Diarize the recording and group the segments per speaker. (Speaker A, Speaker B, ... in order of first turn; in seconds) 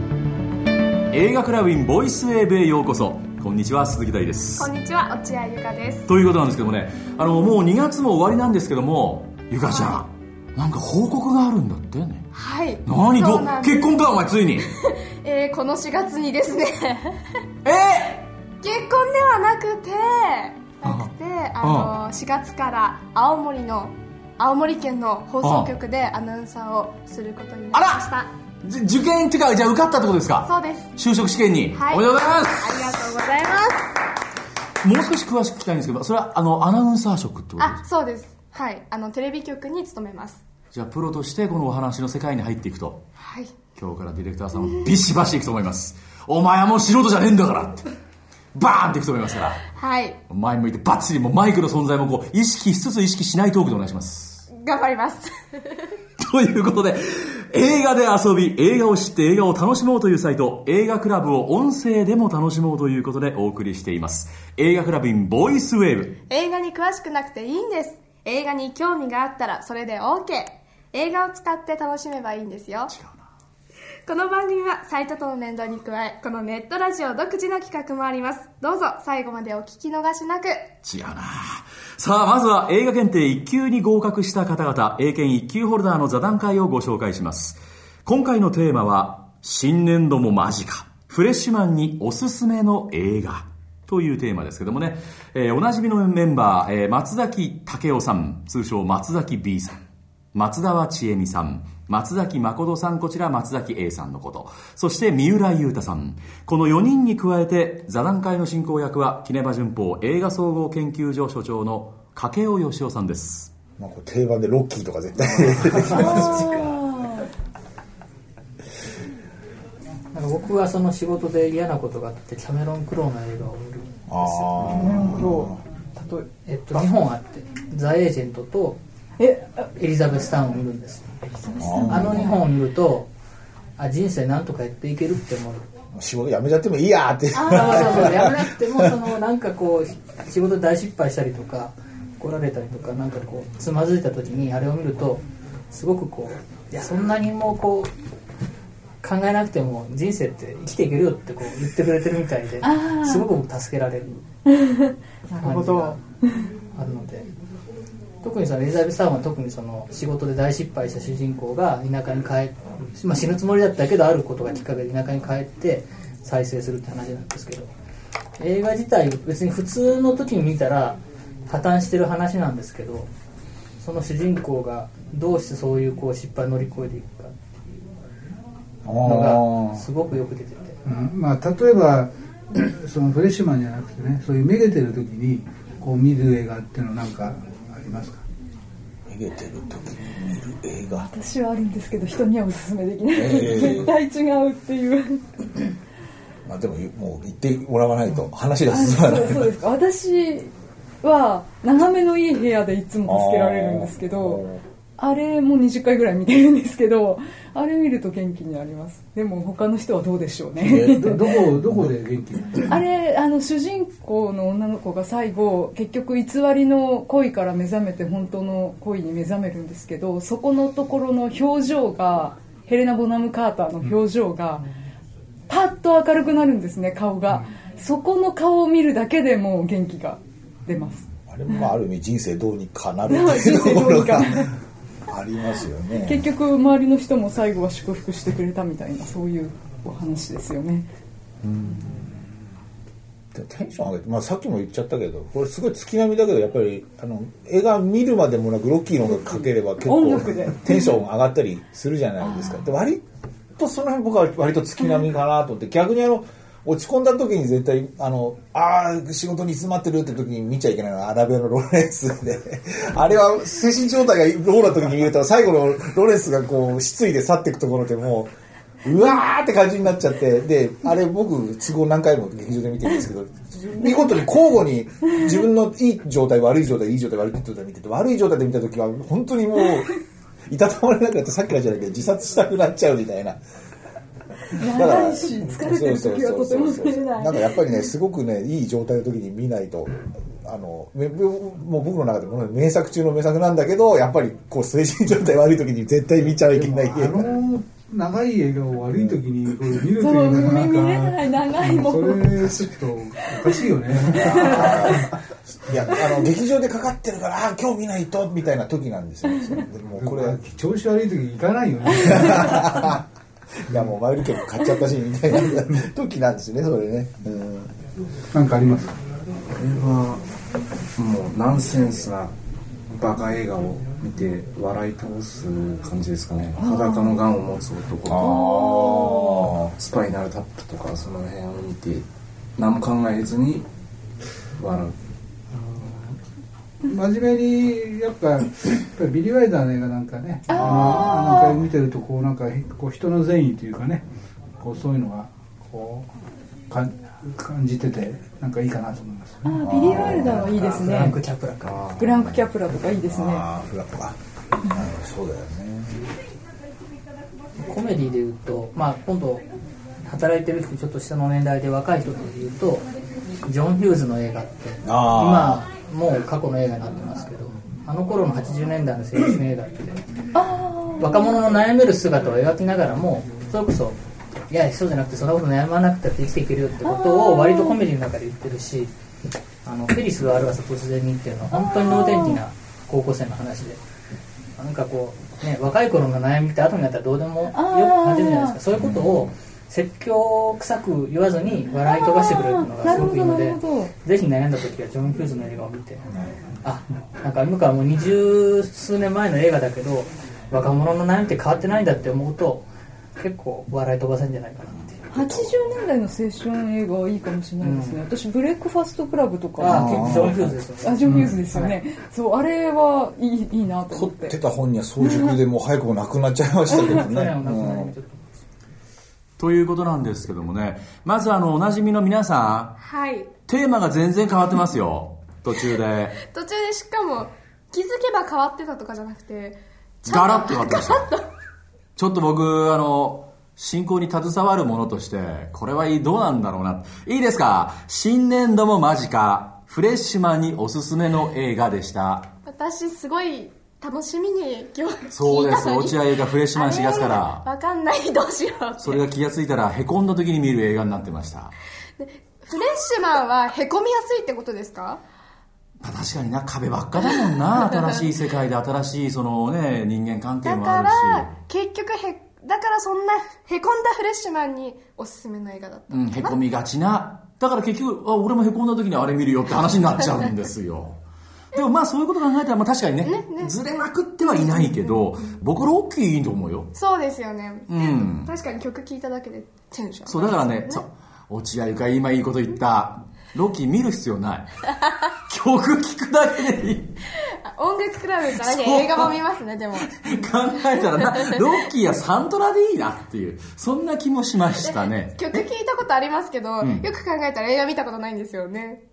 Speaker A: 1.1-4.7, 6.1-12.2, 12.8-14.7, 17.6-18.3, 20.8-21.9, 25.4-25.8, 27.7-28.0, 28.6-32.8, 34.8-37.8, 40.7-43.0, 43.7-47.9, 48.5-49.6, 50.3-54.4, 56.2-66.2, 72.9-73.2, 80.8-99.8, 100.3-113.5, 419.4-422.8, 423.5-426.2, 430.1-431.0, 432.0-442.3, 445.1-447.4, 448.8-451.5, 455.8-461.3, 465.9-471.0, 471.5-476.7, 477.7-478.3, 480.1-484.5, 485.3-487.0, 488.4-489.1, 489.8-495.4, 496.6-496.9
Speaker B: 4.6-6.1, 9.7-10.0, 12.3-13.9, 14.6-17.2, 18.6-28.3, 30.4-30.9, 31.7-32.0, 32.6-33.8, 37.6-40.4, 43.2-43.6, 49.7-50.2, 54.5-55.9, 66.3-72.9, 74.1-80.7, 422.8-423.3, 426.2-431.2, 442.4-446.0, 446.5-449.0, 452.0-455.0, 460.4-466.4, 473.0-473.6, 474.2-475.0, 476.7-480.8, 487.2-489.9, 491.1-491.4, 494.6-498.8
Speaker C: 113.8-116.7, 124.1-125.5, 131.6-132.3, 135.9-138.9, 178.8-179.8, 189.1-191.1, 193.1-193.9, 196.4-199.5, 203.0-204.6, 210.6-211.9, 231.2-234.5, 235.1-236.3, 241.4-242.2, 243.3-253.0, 253.6-268.3, 268.8-279.9, 280.5-283.4, 284.6-297.4, 298.9-299.2, 304.1-310.4, 312.0-312.9, 313.7-317.7, 328.0-329.6, 349.6-350.8, 351.6-352.5, 353.0-354.2, 354.7-356.0, 364.8-365.6, 409.6-410.5, 413.9-417.9
Speaker D: 115.6-117.3, 124.8-126.8, 129.2-129.6, 131.3-132.4, 152.6-153.3, 154.5-156.0, 190.9-195.7, 198.7-200.5, 201.0-204.4, 205.0-211.1, 212.7-224.6, 225.5-231.7, 233.1-234.5, 235.9-240.9, 249.1-251.0, 252.2-252.6, 284.5-287.9, 300.0-302.4, 303.2-303.6, 304.1-304.5, 326.6-327.2, 328.1-329.5, 340.5-341.7, 349.4-351.2, 351.9-353.4, 370.3-371.3, 376.8-377.8, 381.5-382.4, 387.5-388.6, 391.8-393.9, 405.1-414.4
Speaker E: 120.1-125.0, 126.4-128.8, 129.7-131.2, 131.8-133.1, 133.8-135.6, 137.3-147.9, 149.0-154.2, 155.4-156.0, 156.7-157.3, 158.2-167.7, 168.4-173.1, 173.8-177.4, 179.0-180.8, 350.1-351.8, 357.6-359.4, 360.0-362.8, 363.4-370.0, 371.0-374.0, 374.5-378.9, 379.6-383.8, 384.6-396.1, 396.6-402.7, 403.2-405.1, 407.6-408.0, 409.6-411.8, 416.7-418.4
Speaker F: 180.8-188.2, 210.7-212.8, 296.4-305.2, 309.9-313.0, 318.3-318.9, 335.5-336.1, 336.9-344.0, 344.6-346.1, 346.7-349.6, 350.8-351.1
Speaker G: 319.5-320.2, 320.9-322.3, 322.9-328.9, 329.6-333.7, 334.5-334.9